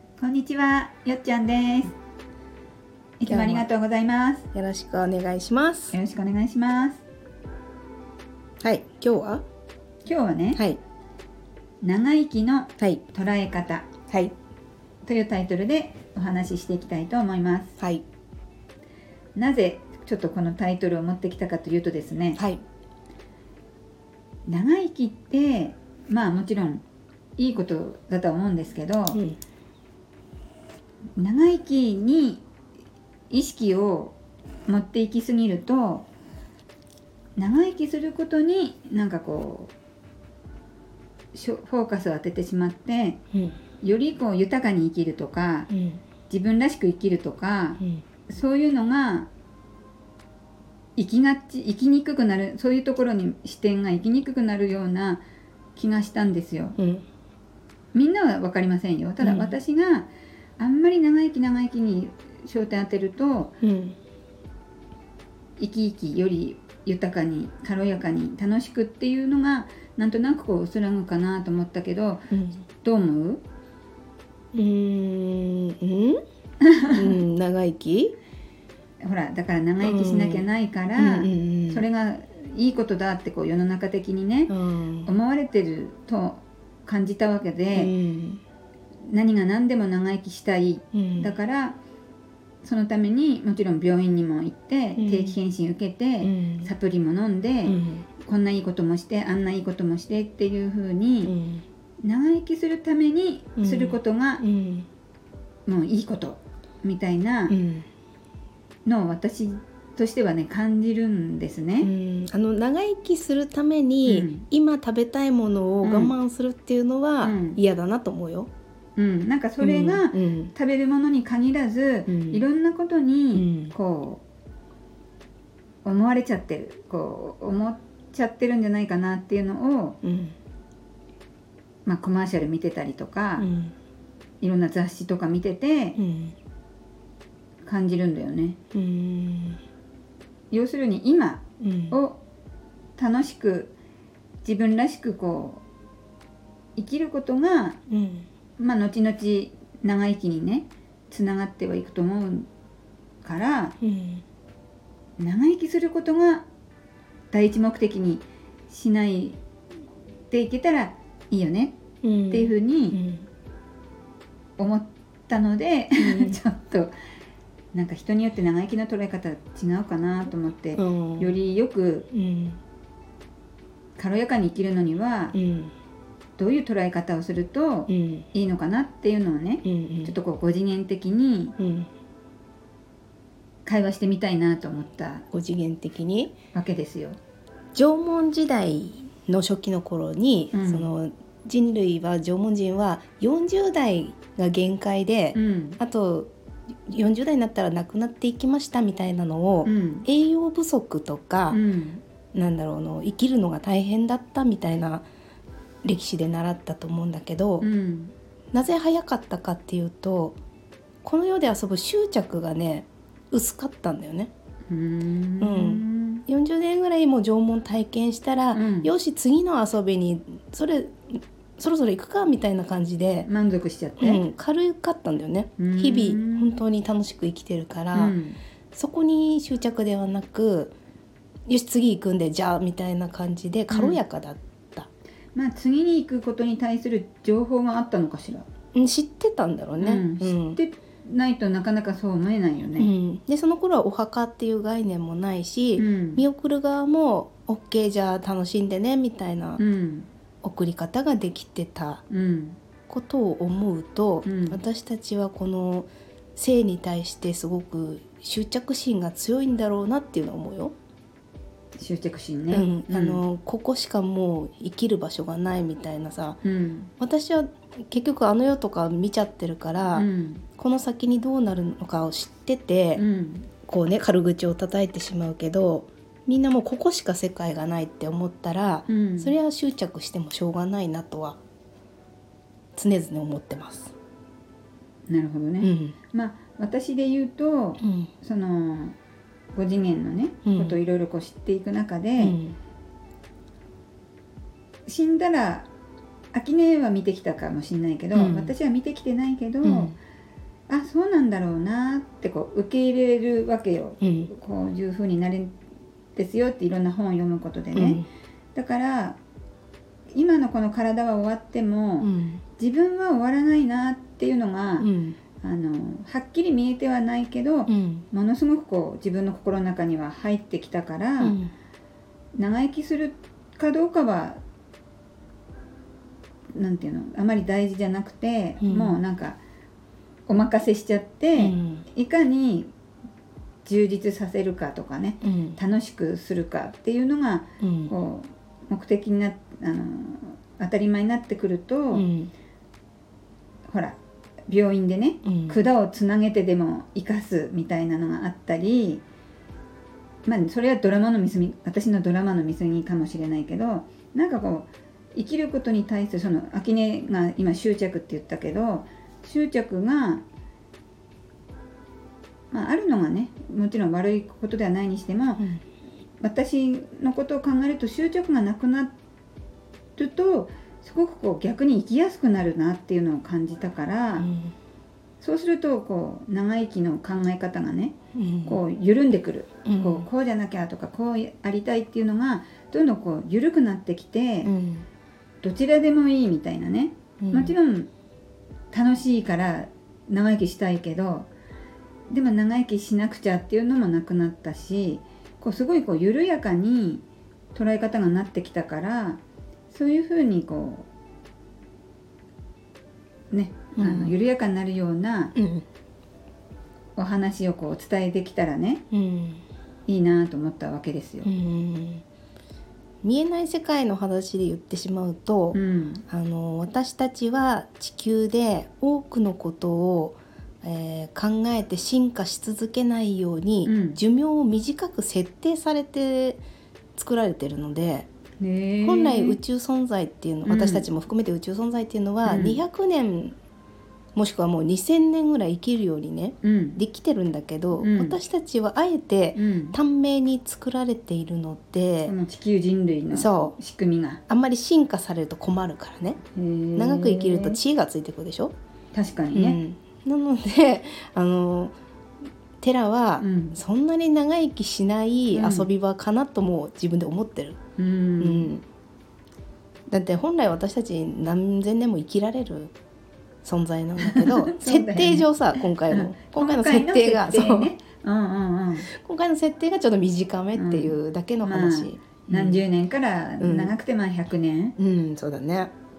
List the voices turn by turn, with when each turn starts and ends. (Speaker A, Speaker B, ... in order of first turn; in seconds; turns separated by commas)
Speaker A: 0.2-1.9, Speaker A: 3.2-4.5, Speaker B: 3.2-3.6, Speaker B: 4.5-6.0, Speaker A: 5.9-7.0, Speaker B: 8.6-9.4, Speaker A: 10.1-10.6, Speaker B: 10.5-10.8, Speaker A: 11.8-13.9, Speaker A: 15.1-17.8, Speaker B: 17.8-18.0, Speaker A: 19.4-22.4, Speaker B: 22.4-22.6, Speaker A: 24.5-26.8, Speaker A: 27.4-29.2, Speaker B: 29.1-29.4, Speaker A: 31.2-32.4, Speaker A: 33.3-34.2, Speaker A: 34.7-36.1, Speaker A: 37.4-39.7, Speaker A: 41.3-43.2, Speaker A: 43.8-45.7, Speaker B: 45.7-46.0, Speaker A: 46.3-49.3, Speaker A: 51.0-55.2, Speaker A: 55.8-56.8, Speaker B: 56.8-57.0, Speaker A: 57.9-63.6, Speaker B: 59.2-59.5, Speaker B: 63.6-64.0, Speaker A: 65.6-72.3, Speaker B: 72.3-72.6, Speaker A: 72.8-73.4, Speaker B: 74.5-76.2, Speaker A: 76.6-77.2, Speaker B: 76.9-78.2, Speaker A: 79.0-84.5, Speaker B: 79.8-80.5, Speaker B: 81.0-81.8, Speaker B: 84.5-85.1, Speaker A: 85.0-87.9, Speaker B: 87.8-88.4, Speaker A: 89.1-91.8, Speaker B: 90.9-91.3, Speaker A: 92.6-101.3, Speaker B: 95.0-95.4, Speaker B: 96.2-96.7, Speaker B: 97.7-98.0, Speaker B: 101.2-101.6, Speaker A: 102.0-104.4, Speaker B: 103.6-104.9, Speaker A: 105.7-107.6, Speaker B: 107.5-107.9, Speaker A: 108.9-111.9, Speaker B: 111.8-118.5, Speaker A: 114.0-114.5, Speaker A: 115.8-116.2, Speaker A: 117.2-117.6, Speaker A: 119.0-124.2, Speaker B: 119.6-120.5, Speaker B: 122.1-122.4, Speaker B: 123.3-123.7, Speaker A: 125.8-130.0, Speaker B: 130.0-130.3, Speaker A: 131.9-133.5, Speaker B: 133.4-133.7, Speaker A: 134.4-136.0, Speaker B: 136.0-136.3, Speaker A: 137.7-138.6, Speaker B: 138.7-139.6, Speaker A: 140.5-142.2, Speaker B: 141.6-142.0, Speaker A: 143.0-143.7, Speaker A: 144.4-145.6, Speaker A: 146.8-147.8, Speaker B: 147.9-148.3, Speaker A: 148.6-152.5, Speaker A: 153.2-153.8, Speaker B: 153.8-154.2, Speaker A: 155.2-156.5, Speaker A: 157.3-159.4, Speaker A: 160.3-161.8, Speaker B: 162.0-163.2, Speaker A: 162.3-163.0, Speaker A: 164.6-166.9, Speaker B: 166.0-166.4, Speaker A: 167.7-172.1, Speaker B: 170.8-171.3, Speaker B: 172.1-172.6, Speaker A: 174.0-175.4, Speaker B: 175.3-175.7, Speaker A: 176.4-181.6, Speaker B: 177.9-178.3, Speaker B: 179.7-180.1, Speaker B: 181.6-181.9, Speaker A: 183.7-185.2, Speaker B: 185.3-186.4, Speaker A: 186.5-187.2, Speaker B: 187.8-196.3, Speaker A: 190.5-190.9, Speaker A: 195.3-195.8, Speaker B: 196.9-201.6, Speaker A: 199.7-200.1, Speaker A: 201.5-202.0, Speaker B: 202.3-205.1, Speaker B: 205.8-207.7, Speaker A: 207.6-208.1, Speaker B: 208.5-210.4, Speaker B: 211.0-214.3, Speaker A: 214.7-216.2, Speaker B: 215.4-223.3, Speaker A: 218.5-218.9, Speaker A: 223.3-224.2, Speaker B: 224.0-228.2, Speaker A: 225.6-226.6, Speaker A: 227.9-228.4, Speaker B: 228.7-230.8, Speaker B: 231.5-234.9, Speaker A: 233.7-234.0, Speaker A: 235.3-238.5, Speaker B: 238.8-240.6, Speaker A: 239.8-242.9, Speaker B: 242.8-249.6, Speaker A: 245.8-246.2, Speaker A: 249.6-250.1, Speaker B: 250.4-252.0, Speaker A: 252.1-252.6, Speaker B: 252.9-260.7, Speaker A: 254.2-254.6, Speaker A: 261.8-263.2, Speaker B: 262.5-266.4, Speaker A: 266.4-266.9, Speaker B: 267.0-273.0, Speaker A: 269.9-270.4, Speaker A: 273.0-273.5, Speaker B: 273.7-281.4, Speaker A: 278.9-279.4, Speaker B: 282.8-283.9, Speaker A: 285.1-289.0, Speaker B: 285.6-285.9, Speaker B: 287.8-288.1, Speaker A: 289.6-292.4, Speaker B: 290.4-290.8, Speaker B: 292.2-292.6, Speaker A: 294.9-295.7, Speaker A: 296.3-299.9, Speaker B: 298.1-298.5, Speaker B: 299.6-299.9, Speaker A: 300.7-305.6, Speaker B: 304.0-304.3, Speaker A: 306.1-308.0, Speaker B: 307.7-308.1, Speaker A: 308.6-309.2, Speaker A: 310.1-321.4, Speaker B: 312.0-312.4, Speaker B: 314.8-315.2, Speaker B: 317.7-318.1, Speaker B: 321.2-321.5, Speaker A: 322.4-324.4, Speaker A: 326.6-329.4, Speaker B: 328.6-329.0, Speaker A: 330.3-332.7, Speaker B: 331.4-331.8, Speaker A: 333.6-342.1, Speaker B: 335.2-335.6, Speaker B: 337.6-337.9, Speaker B: 341.9-342.3, Speaker A: 343.7-349.0, Speaker B: 345.2-345.6, Speaker A: 350.3-360.2, Speaker A: 362.5-365.4, Speaker A: 366.2-368.9, Speaker A: 370.0-374.3, Speaker B: 374.2-374.5, Speaker A: 375.2-384.5, Speaker B: 378.1-378.6, Speaker B: 379.7-380.1, Speaker B: 384.4-384.9, Speaker A: 385.4-387.9, Speaker B: 387.2-387.6, Speaker A: 388.7-391.3, Speaker A: 392.1-397.0, Speaker A: 397.6-400.9, Speaker A: 403.3-405.3, Speaker B: 403.8-404.1, Speaker B: 405.4-405.6, Speaker A: 407.0-408.8, Speaker B: 408.9-409.4, Speaker A: 409.9-411.3, Speaker B: 411.2-412.0, Speaker B: 413.0-426.4, Speaker A: 415.5-416.0, Speaker A: 423.6-424.0, Speaker B: 427.0-428.1, Speaker A: 428.4-429.4, Speaker B: 428.8-433.4, Speaker A: 430.5-430.9, Speaker A: 432.3-432.6, Speaker B: 434.1-442.1, Speaker A: 436.4-436.8, Speaker A: 437.8-438.2, Speaker A: 439.4-439.8, Speaker A: 442.1-444.2, Speaker B: 443.1-443.6, Speaker B: 444.3-446.2, Speaker A: 446.3-447.6, Speaker B: 446.8-448.5, Speaker A: 448.9-449.6, Speaker B: 449.3-451.8, Speaker B: 452.6-457.6, Speaker A: 453.2-453.6, Speaker A: 455.3-455.7, Speaker A: 457.8-458.5, Speaker B: 458.2-458.6, Speaker B: 459.9-462.7, Speaker B: 463.4-467.7, Speaker A: 464.0-468.9, Speaker B: 468.9-472.6, Speaker A: 470.6-474.8, Speaker B: 473.4-473.7, Speaker B: 474.8-475.7